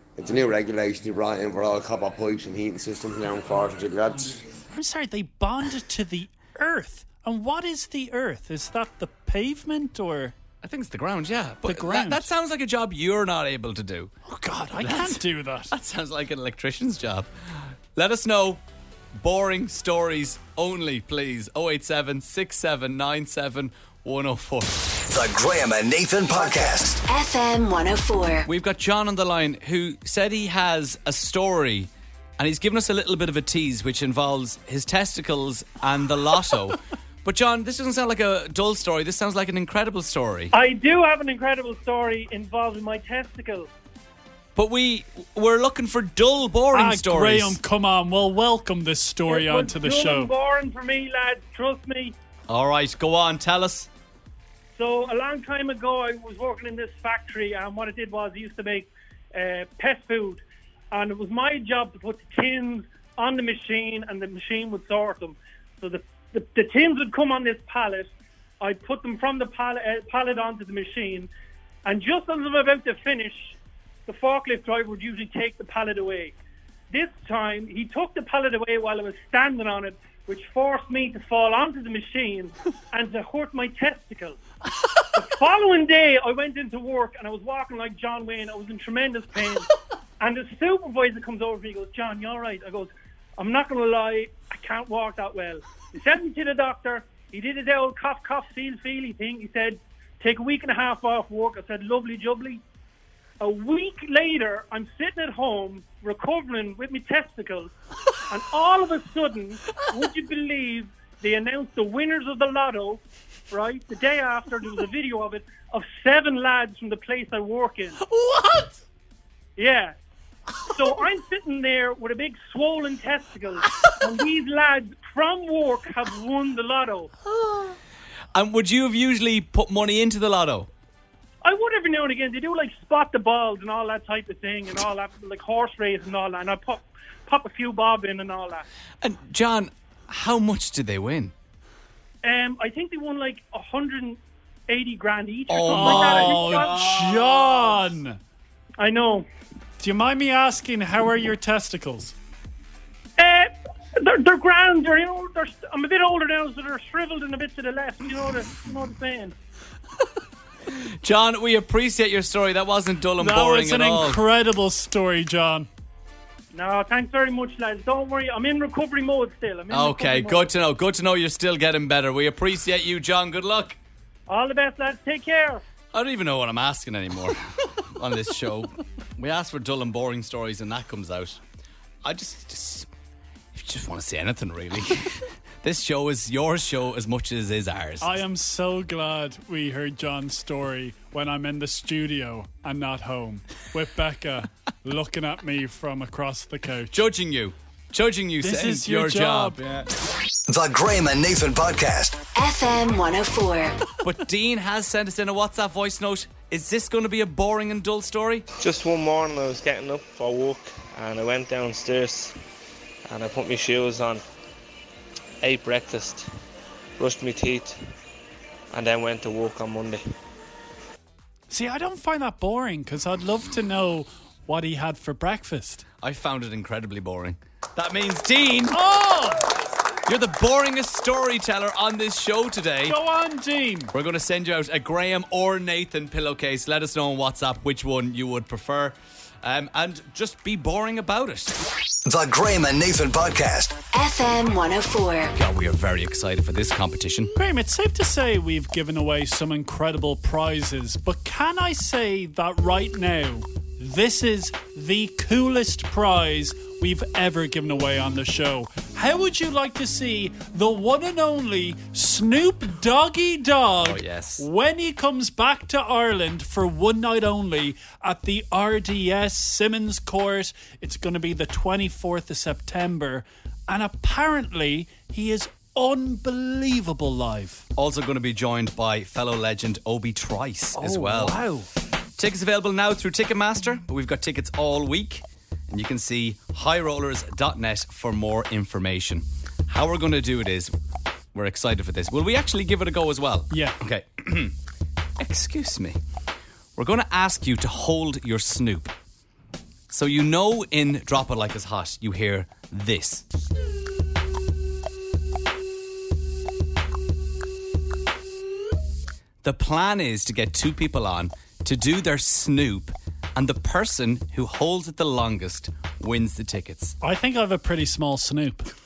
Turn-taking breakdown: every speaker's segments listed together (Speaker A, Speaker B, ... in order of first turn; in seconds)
Speaker A: 0.1-4.5
Speaker B: 4.7-10.3, 11.6-12.3, 14.2-15.7, 46.7-50.3, 118.2-118.7, 145.7-148.2, 149.8-152.2, 163.2-165.7, 188.0-196.9, 198.4-199.6, 221.5-225.8, 228.7-229.5, 232.8-233.9, 247.3-277.6, 280.7-281.7, 293.5-293.8, 317.0-318.7
Speaker C: 10.6-14.1, 14.8-17.3, 17.9-18.6, 19.1-24.9, 28.4-40.5, 44.5-47.6, 52.5-53.9, 128.3-130.7, 139.0-141.3, 145.5-147.2, 160.7-164.2, 169.7-173.8, 175.9-181.4, 182.0-182.9, 183.5-188.2, 196.9-199.9, 204.0-208.4, 226.0-228.8, 230.0-233.0, 233.9-241.6, 245.3-247.3, 263.8-264.4, 277.8-281.4, 282.2-290.7, 291.3-294.6, 295.2-296.0, 296.8-298.9, 299.9-303.2, 309.4-316.9
Speaker D: 25.0-27.0, 200.5-202.2, 242.0-243.8
Speaker E: 27.1-28.5, 202.3-203.8, 243.9-245.3
Speaker F: 40.5-43.7, 49.3-52.1, 54.8-71.3, 71.8-76.3, 76.9-84.4, 85.1-89.7, 90.2-102.6, 103.4-107.7, 108.3-118.0, 119.6-120.0, 120.7-127.1, 131.4-138.6, 142.2-147.2, 148.8-149.3, 153.2-159.3, 166.5-170.5, 174.3-175.6
Speaker G: 208.6-212.3, 213.1-214.2, 215.4-216.3, 217.0-217.8, 218.7-220.0